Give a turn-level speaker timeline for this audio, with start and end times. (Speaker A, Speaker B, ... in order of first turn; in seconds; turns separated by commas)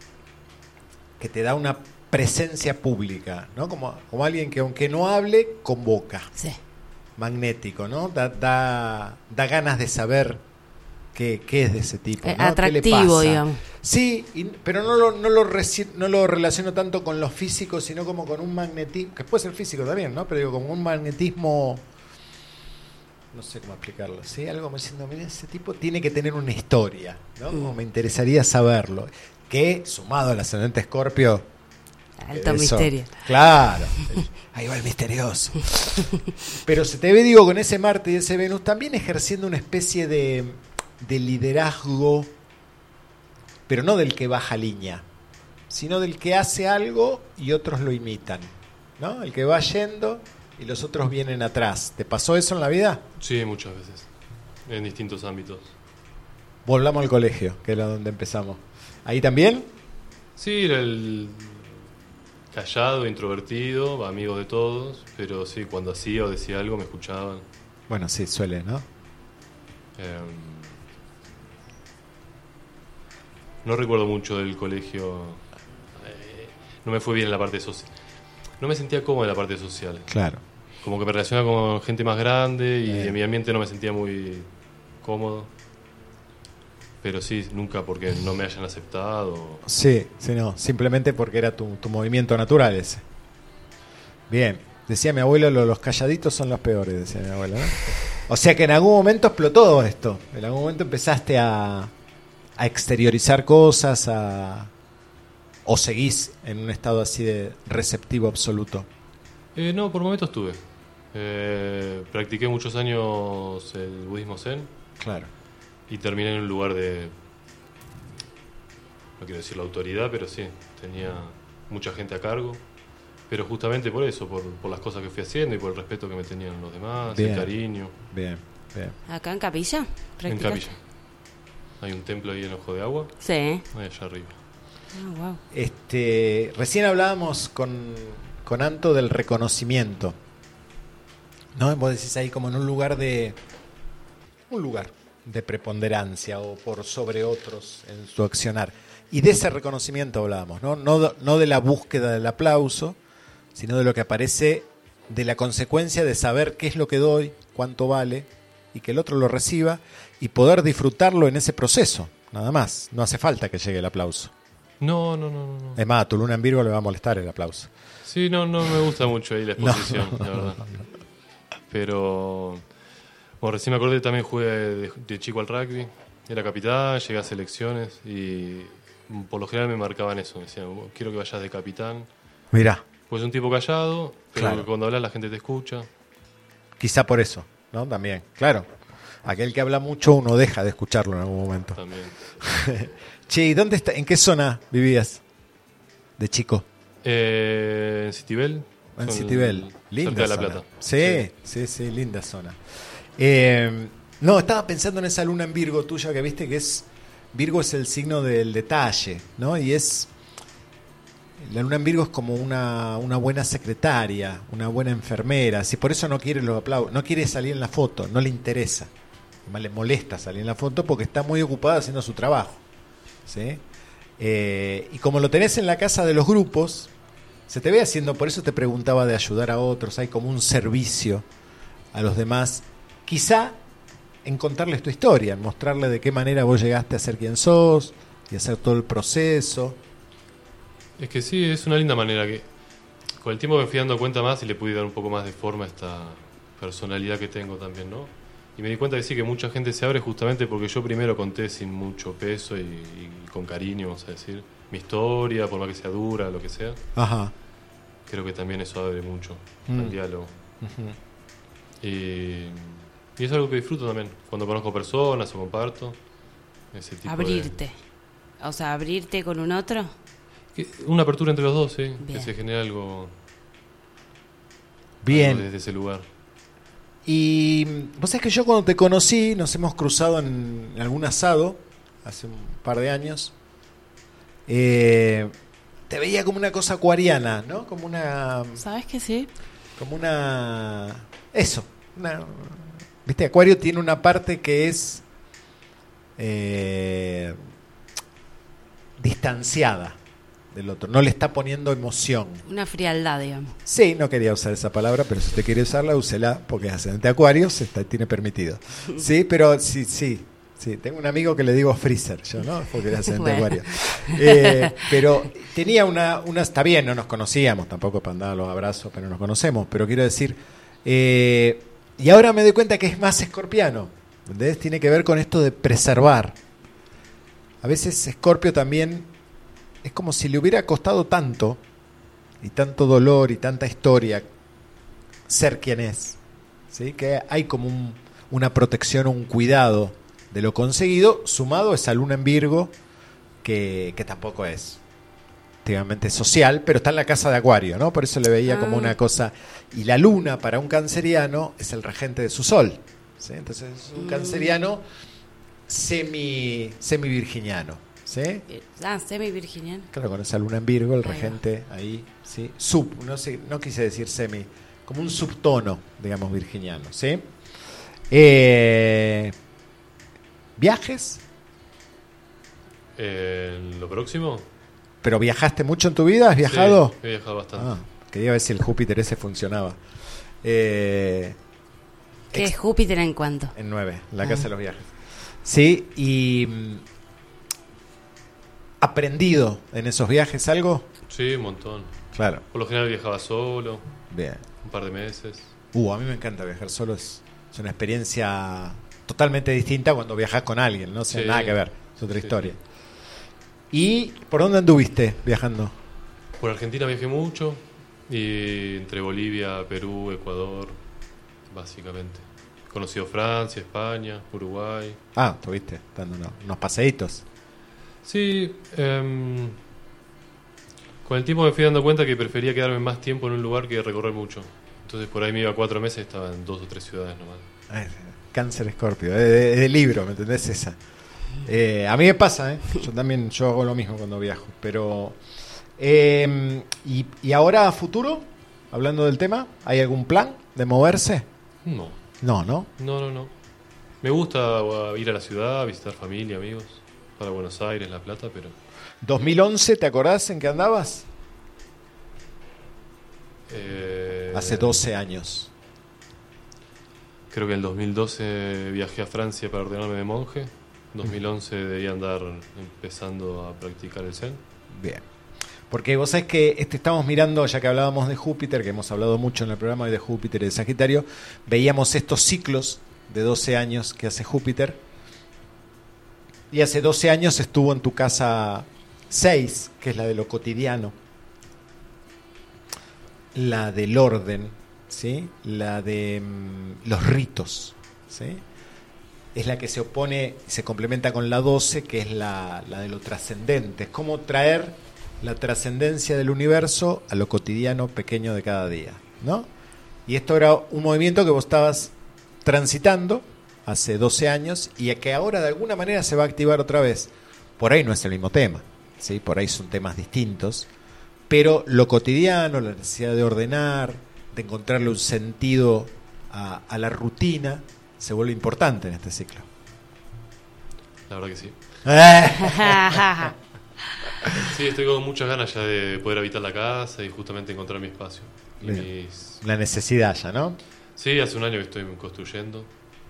Speaker A: 1.2-6.3, Speaker A: 7.2-10.4, Speaker A: 11.1-21.8, Speaker B: 12.2-13.6, Speaker A: 23.3-31.5, Speaker B: 32.2-33.2, Speaker A: 32.3-36.1, Speaker A: 36.6-42.3, Speaker A: 43.7-45.0, Speaker A: 45.7-53.0, Speaker C: 53.2-54.1, Speaker C: 54.7-55.8, Speaker A: 56.6-59.7, Speaker C: 60.4-61.9, Speaker C: 62.5-67.4, Speaker A: 67.9-68.9, Speaker C: 70.0-70.8, Speaker C: 73.6-75.4, Speaker C: 75.9-77.9, Speaker C: 78.6-80.1, Speaker A: 80.1-80.4, Speaker C: 80.8-84.5, Speaker A: 82.8-83.2, Speaker C: 85.0-85.5, Speaker C: 87.0-89.6, Speaker A: 89.6-93.0, Speaker A: 94.3-101.9, Speaker A: 102.6-104.7, Speaker A: 105.7-108.9, Speaker C: 109.5-114.7, Speaker A: 115.0-115.3, Speaker C: 115.9-117.2, Speaker C: 119.2-122.7, Speaker C: 123.3-127.9, Speaker A: 127.1-128.9, Speaker B: 129.1-130.7, Speaker C: 130.3-130.8, Speaker C: 131.8-134.4, Speaker B: 133.2-133.6, Speaker B: 134.9-135.4, Speaker A: 135.5-140.2, Speaker A: 141.6-143.4, Speaker A: 144.5-153.0, Speaker A: 153.6-164.3, Speaker C: 164.8-165.8, Speaker A: 165.8-167.7, Speaker C: 168.1-170.7, Speaker A: 169.6-170.8, Speaker C: 171.7-172.7, Speaker C: 173.4-182.1, Speaker A: 182.5-182.8, Speaker C: 183.1-185.9, Speaker A: 184.3-184.7, Speaker A: 186.8-188.7, Speaker A: 189.2-191.8, Speaker C: 191.8-192.2, Speaker A: 192.4-195.2, Speaker A: 196.2-196.7, Speaker C: 197.0-201.2, Speaker A: 199.0-202.6, Speaker A: 203.2-210.1, Speaker A: 211.4-218.9, Speaker A: 219.4-222.6, Speaker A: 223.3-223.6, Speaker A: 224.2-226.9, Speaker A: 227.5-231.2, Speaker A: 231.9-233.6, Speaker A: 234.2-239.8, Speaker C: 241.0-242.6, Speaker C: 243.2-256.8, Speaker A: 256.9-257.3, Speaker C: 258.1-260.3, Speaker A: 259.7-260.0, Speaker A: 260.6-261.0, Speaker C: 261.8-266.0, Speaker C: 266.7-267.6, Speaker B: 267.1-267.8, Speaker B: 268.4-269.9, Speaker C: 270.5-273.1, Speaker B: 272.0-272.3, Speaker A: 275.0-275.5, Speaker C: 275.1-276.1, Speaker A: 277.1-283.3, Speaker A: 284.5-285.3, Speaker A: 285.9-288.6, Speaker B: 288.6-289.3, Speaker A: 289.8-295.0, Speaker A: 296.2-297.4, Speaker A: 299.0-300.0, Speaker A: 300.5-302.4, Speaker B: 302.5-303.6, Speaker A: 303.7-326.4, Speaker B: 313.1-314.8, Speaker A: 327.6-329.1, Speaker A: 329.8-331.6, Speaker A: 332.4-334.3, Speaker A: 335.3-336.2, Speaker A: 336.7-342.7, Speaker A: 343.4-344.8, Speaker A: 345.6-354.9, Speaker B: 348.5-349.0, Speaker B: 353.9-354.6, Speaker A: 355.7-358.4, Speaker B: 358.5-359.9, Speaker A: 359.9-367.3, Speaker B: 361.0-361.4, Speaker A: 368.1-369.3, Speaker A: 370.6-371.2, Speaker C: 373.0-374.5, Speaker A: 375.0-376.9, Speaker C: 376.4-377.7, Speaker A: 377.6-379.8, Speaker A: 380.4-381.4, Speaker B: 382.3-383.5, Speaker A: 383.6-386.8, Speaker A: 388.8-390.9, Speaker C: 391.1-392.0, Speaker A: 392.1-392.4, Speaker C: 392.5-393.9, Speaker A: 394.1-394.4, Speaker C: 394.6-395.5, Speaker A: 395.7-402.6, Speaker C: 401.1-402.6, Speaker A: 403.7-405.8, Speaker C: 406.4-410.8, Speaker C: 411.5-415.0, Speaker A: 415.1-417.2, Speaker C: 418.0-419.6, Speaker C: 421.1-427.5, Speaker A: 427.7-430.8, Speaker A: 431.4-435.2, Speaker A: 435.8-441.3, Speaker C: 441.6-442.0, Speaker A: 442.2-442.7, Speaker C: 442.8-443.3, Speaker C: 444.0-448.6, Speaker A: 449.0-451.1, Speaker C: 453.5-454.8, Speaker A: 454.3-455.5, Speaker C: 457.3-464.4, Speaker A: 464.7-465.1, Speaker A: 465.7-474.8, Speaker A: 476.5-480.9, Speaker A: 483.3-488.4, Speaker A: 489.3-499.5, Speaker A: 500.1-510.7, Speaker A: 511.3-519.5, Speaker C: 521.1-521.8, Speaker A: 521.9-523.3, Speaker B: 522.5-523.3, Speaker C: 524.4-529.4, Speaker A: 528.6-530.6, Speaker C: 531.0-532.7